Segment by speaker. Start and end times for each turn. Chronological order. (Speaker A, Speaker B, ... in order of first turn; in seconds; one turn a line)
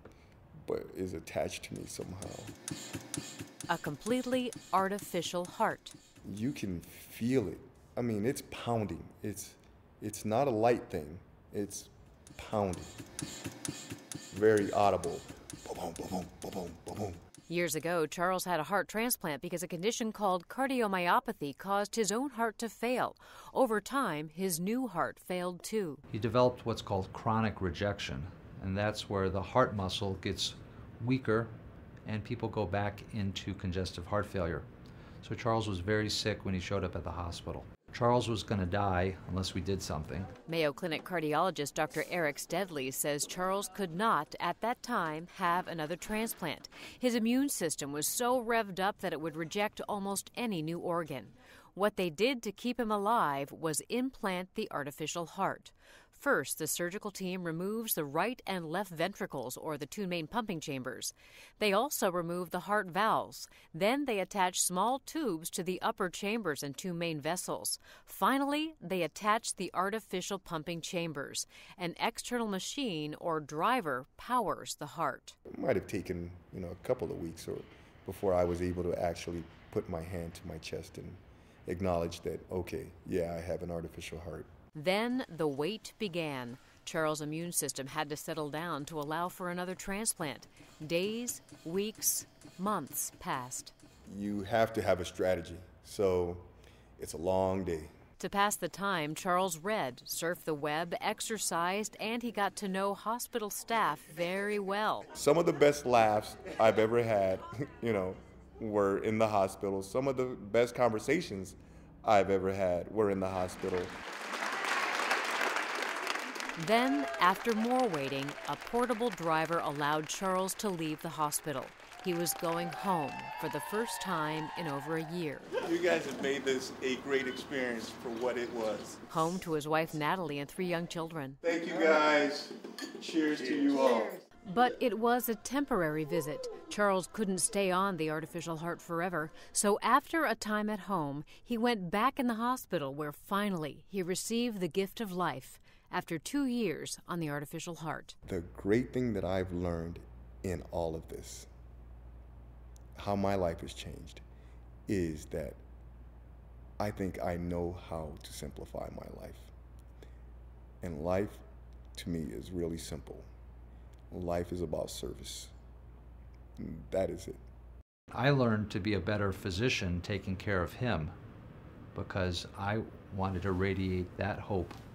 Speaker A: 0.6-2.5
Speaker B: 3.7-6.0
Speaker A: 6.2-13.0
Speaker A: 14.3-17.2
Speaker B: 17.5-26.0
Speaker C: 26.1-31.5
Speaker C: 32.0-34.7
Speaker C: 35.2-40.3
Speaker B: 40.5-75.4
Speaker A: 75.5-84.5
Speaker B: 84.7-93.7
Speaker A: 94.1-97.9
Speaker B: 98.2-105.1
Speaker A: 105.1-113.9
Speaker B: 116.6-125.6
Speaker D: 125.6-129.0
Speaker B: 129.1-131.4
Speaker D: 131.4-134.2
Speaker A: 133.6-133.9
Speaker B: 134.4-148.2
Speaker A: 148.2-151.5
Speaker A: 153.0-154.2
Speaker A: 154.9-155.6
Speaker A: 156.8-159.5
Speaker A: 160.8-161.4
Speaker A: 161.9-163.3
Speaker A: 164.1-165.5
Speaker A: 166.6-167.4
Speaker C: 168.1-171.2
Speaker C: 171.9-174.8